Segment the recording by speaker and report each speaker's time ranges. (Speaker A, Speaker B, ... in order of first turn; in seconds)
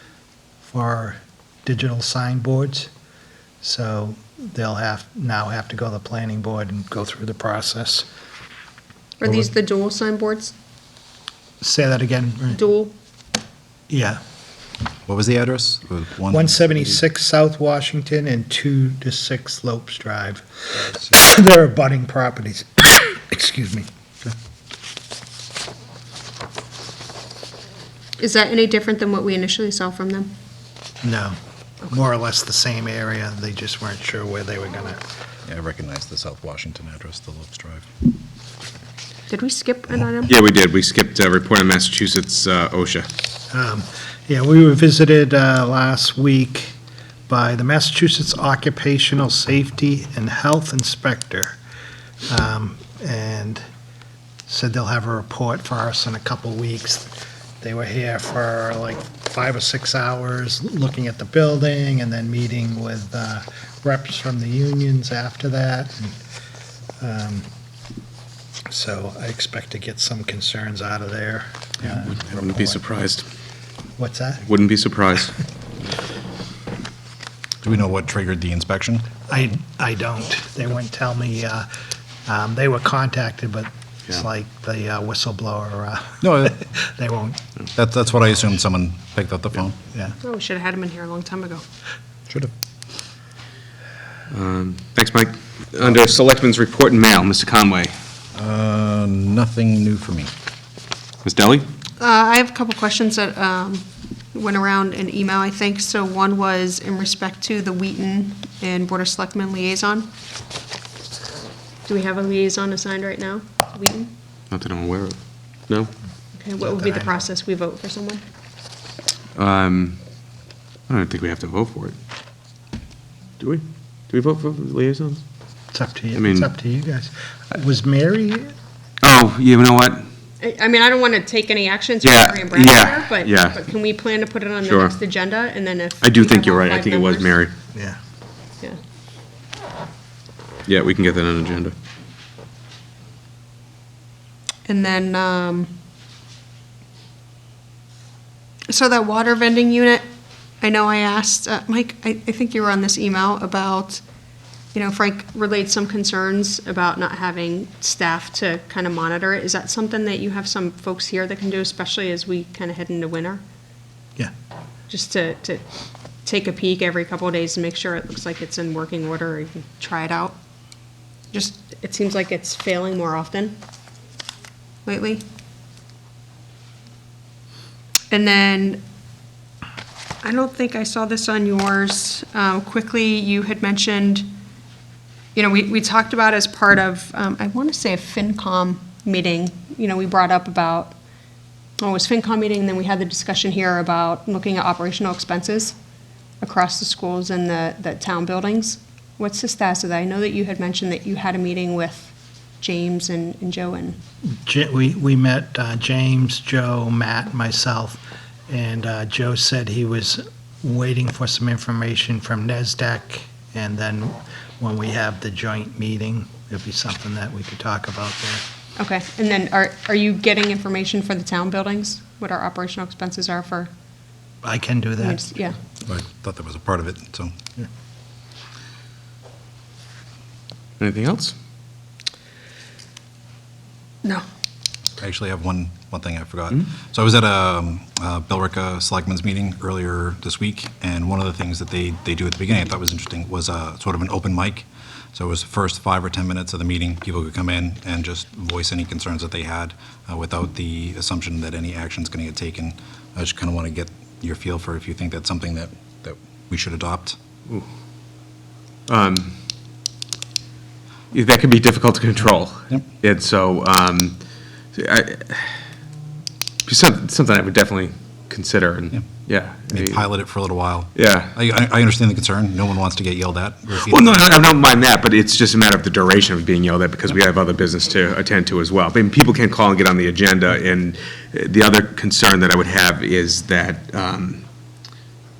Speaker A: 0.7-2.9, 3.6-8.1, 11.6-12.6, 13.9-14.2, 16.3-23.9, 31.0-35.0, 43.5-46.8, 47.3-51.6, 52.3-53.6, 54.5-66.2, 67.0-67.5, 68.7-72.8, 74.0-74.5, 79.3-81.7, 82.2-87.4, 116.6-117.2, 125.7-128.5, 137.7-138.0, 204.4-218.4, 224.4-225.3
Speaker B: 9.2-10.5, 12.5-12.9, 28.2-30.3, 39.3-40.3, 90.2-91.6, 102.0-110.1, 111.9-114.1, 116.3-118.2, 130.4-137.4, 144.7-145.7, 148.7-150.0, 150.6-154.0, 154.7-163.4, 164.9-165.6, 166.2-170.4, 171.3-173.6, 174.8-175.2, 178.1-178.8, 180.2-184.3, 185.3-190.9, 191.8-195.7, 196.4-204.0, 218.8-223.7, 225.0-225.6
Speaker C: 15.1-16.9, 35.5-37.9, 77.6-79.1, 86.2-86.6, 87.7-89.8, 98.3-100.3, 225.8-227.3, 235.0-257.1, 269.7-274.3
Speaker D: 40.3-43.1, 71.8-73.2, 74.4-75.3, 94.3-98.0, 101.2-101.7, 114.5-115.9, 119.3-120.0, 120.9-122.0, 123.4-125.2, 126.1-126.5, 129.0-130.1, 132.0-133.6, 134.6-134.9, 136.0-137.5, 140.7-141.7, 230.8-231.3, 258.9-259.4, 261.1-264.2, 264.7-265.6, 266.6-270.1, 270.9-271.4, 273.7-284.4